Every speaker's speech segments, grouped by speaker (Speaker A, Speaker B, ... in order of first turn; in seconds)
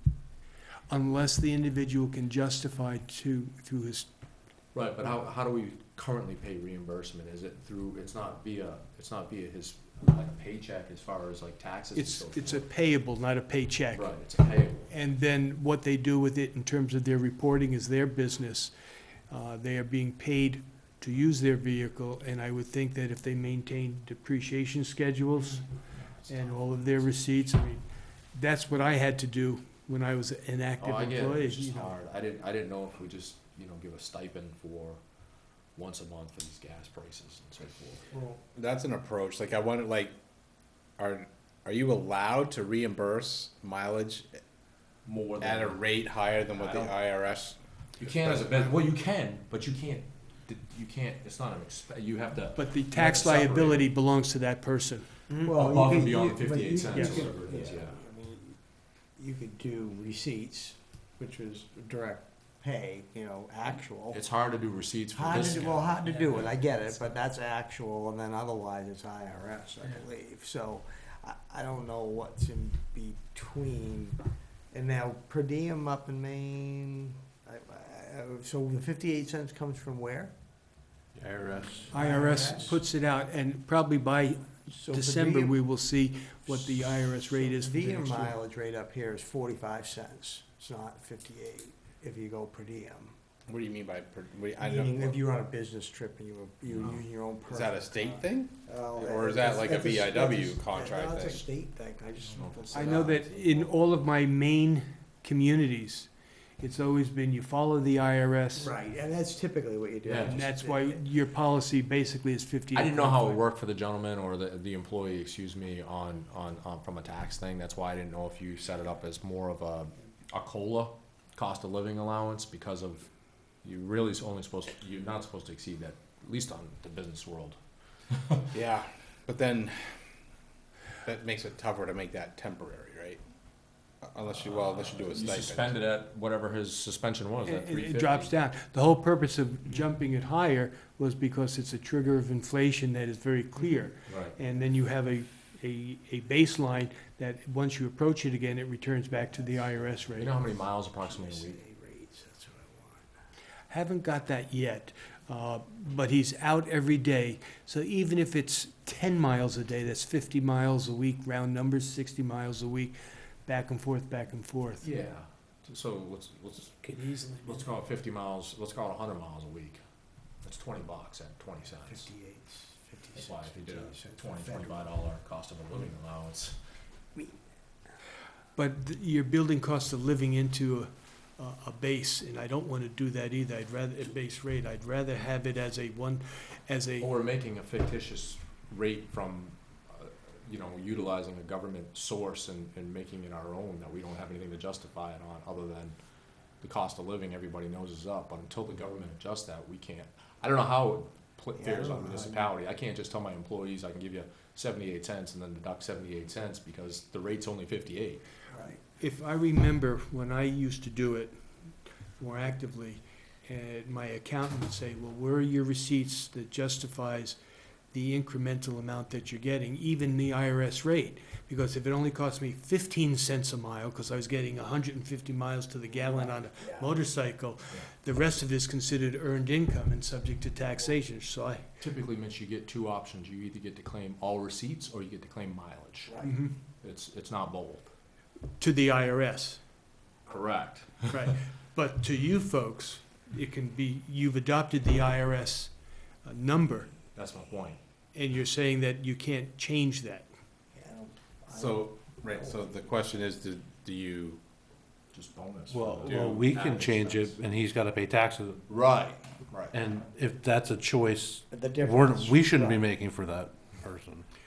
Speaker A: 0.9-4.1, 11.9-14.2, 14.9-18.7, 19.3-25.7, 26.3-32.0, 52.6-55.1, 56.9-57.3, 81.9-88.4, 102.7-108.7, 110.2-113.4, 137.4-150.3, 153.7-164.9, 178.6-187.1, 209.0-211.4, 212.2-217.4, 217.9-231.7, 236.2-236.6, 238.6-239.6, 241.1-246.9, 248.1-250.3
Speaker B: 4.7-12.7, 13.9-14.9, 25.4-27.4, 30.8-35.0, 35.7-38.1, 45.0-45.8, 46.5-47.0, 48.0-53.9, 55.5-58.0, 63.7-67.1, 96.7-97.0, 102.2-103.0, 110.0-110.4, 112.7-123.1, 123.6-127.6, 128.1-128.5, 134.4-138.3, 144.1-144.3, 150.2-151.6, 164.8-169.8, 170.4-172.1, 173.2-176.6, 187.0-196.0, 196.6-208.2, 231.8-236.3, 236.8-237.9, 240.3-241.1, 247.2-247.8, 255.1-257.4, 258.7-259.8
Speaker C: 38.1-38.4, 55.3-64.3, 65.1-74.2, 74.7-80.3, 81.7-82.8, 84.7-85.6, 86.5-93.2, 94.6-103.7, 108.5-111.0, 149.3-149.9, 151.0-153.1, 171.9-175.0, 177.2-177.4, 201.6-202.5, 208.5-208.8, 225.9-226.9, 236.1-236.4, 250.8-252.8, 261.5-262.9
Speaker D: 38.5-40.2, 41.0-44.4, 45.4-48.8, 93.5-95.2, 96.8-101.5, 128.5-130.0, 131.0-133.2, 134.0-135.8, 251.5-254.4, 256.1-256.4
Speaker E: 81.2-82.0, 166.8-167.6, 255.7-258.6, 259.7-264.3